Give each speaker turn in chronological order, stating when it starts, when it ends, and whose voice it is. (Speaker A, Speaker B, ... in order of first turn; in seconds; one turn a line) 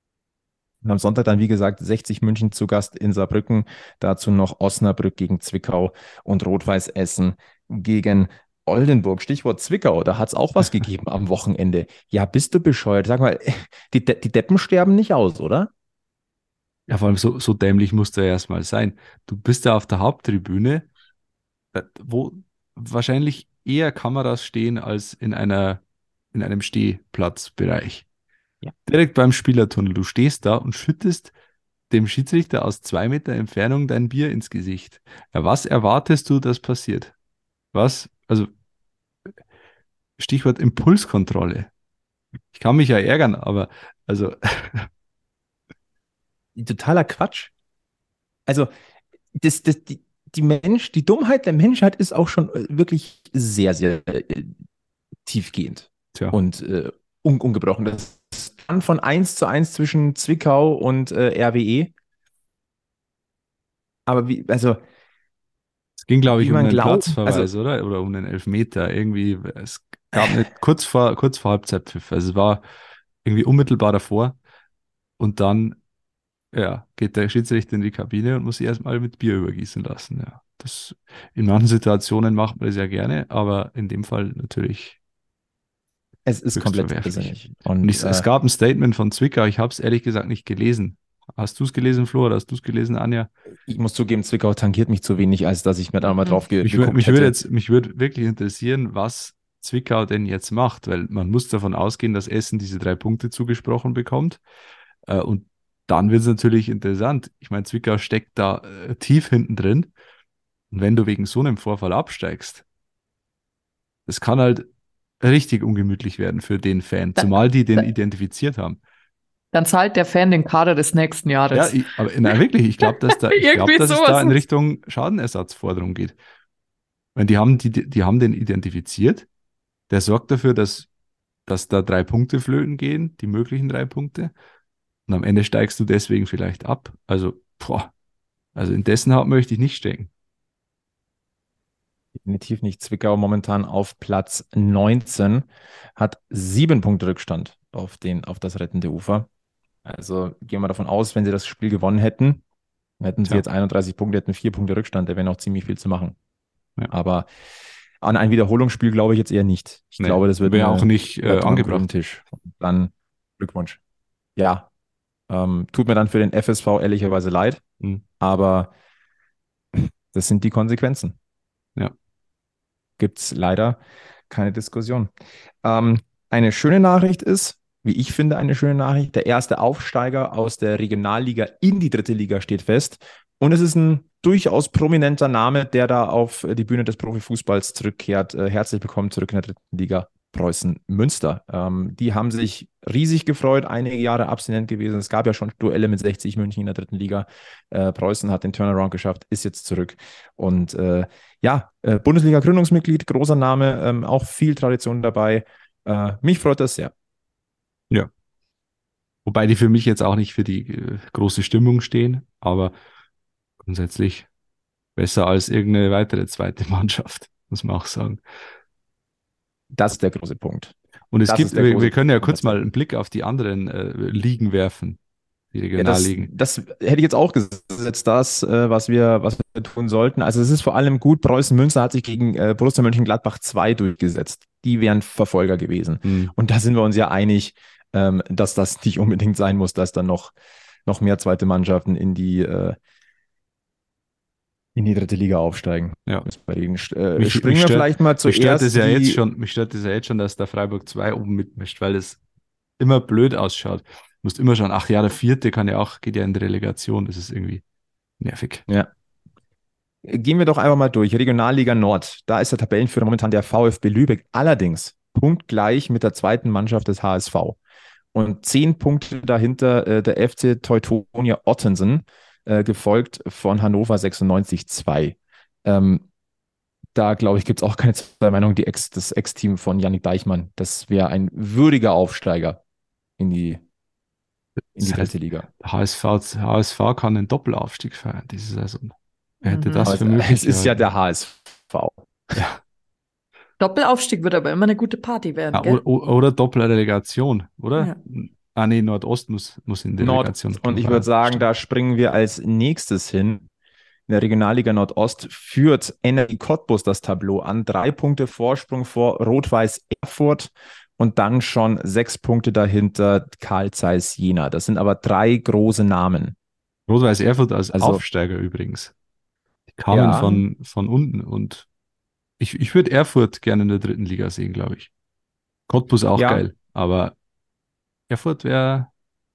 Speaker A: 0.8-15.7
Speaker B: 16.9-20.9
Speaker B: 21.7-25.8
Speaker B: 26.3-28.1
Speaker B: 28.9-31.3
Speaker B: 31.9-37.1
Speaker B: 37.7-38.5
Speaker B: 40.2-41.7
Speaker B: 42.5-44.9
Speaker A: 46.6-47.5
Speaker A: 49.4-54.5
Speaker A: 55.3-61.9
Speaker A: 64.1-64.8
Speaker B: 66.0-72.6
Speaker A: 66.4-67.5
Speaker B: 73.2-74.4
Speaker B: 75.2-75.8
Speaker B: 76.5-85.0
Speaker A: 86.3-88.3
Speaker B: 86.6-93.3
Speaker A: 93.7-97.4
Speaker B: 96.6-104.4
Speaker B: 105.1-109.9
Speaker B: 110.7-112.6
Speaker B: 114.1-114.7
Speaker B: 115.2-118.8
Speaker C: 117.2-117.9
Speaker C: 119.5-121.8
Speaker B: 121.5-126.2
Speaker C: 123.0-124.4
Speaker B: 127.2-129.3
Speaker B: 129.9-130.9
Speaker B: 131.5-134.3
Speaker B: 135.1-137.9
Speaker B: 138.6-140.1
Speaker A: 142.2-149.3
Speaker A: 149.8-152.4
Speaker A: 153.0-156.2
Speaker A: 156.9-157.3
Speaker A: 158.0-163.8
Speaker B: 160.0-161.9
Speaker A: 164.4-164.7
Speaker A: 165.3-167.6
Speaker A: 168.2-168.7
Speaker A: 169.8-171.2
Speaker A: 173.0-173.8
Speaker A: 174.3-175.1
Speaker A: 175.6-206.9
Speaker B: 209.3-212.7
Speaker B: 213.6-214.3
Speaker B: 215.0-218.2
Speaker A: 219.7-220.7
Speaker B: 221.1-225.0
Speaker A: 221.3-222.6
Speaker B: 225.5-226.3
Speaker A: 225.8-240.3
Speaker B: 236.1-236.3
Speaker A: 240.9-242.8
Speaker A: 244.8-249.2
Speaker B: 247.2-252.2
Speaker B: 252.8-257.6
Speaker B: 258.2-258.6
Speaker A: 260.0-267.6
Speaker A: 268.1-276.1
Speaker A: 276.9-282.6
Speaker A: 283.2-283.6
Speaker A: 284.8-285.5
Speaker B: 284.8-290.8
Speaker C: 289.5-290.0
Speaker A: 289.9-292.4
Speaker C: 293.6-295.8
Speaker B: 295.5-301.4
Speaker A: 300.0-303.5
Speaker A: 304.1-316.4
Speaker B: 316.9-318.9
Speaker A: 317.7-318.0
Speaker B: 319.7-321.7
Speaker A: 319.9-320.4
Speaker B: 322.4-324.9
Speaker B: 325.7-327.1
Speaker A: 326.2-326.4
Speaker B: 328.1-328.9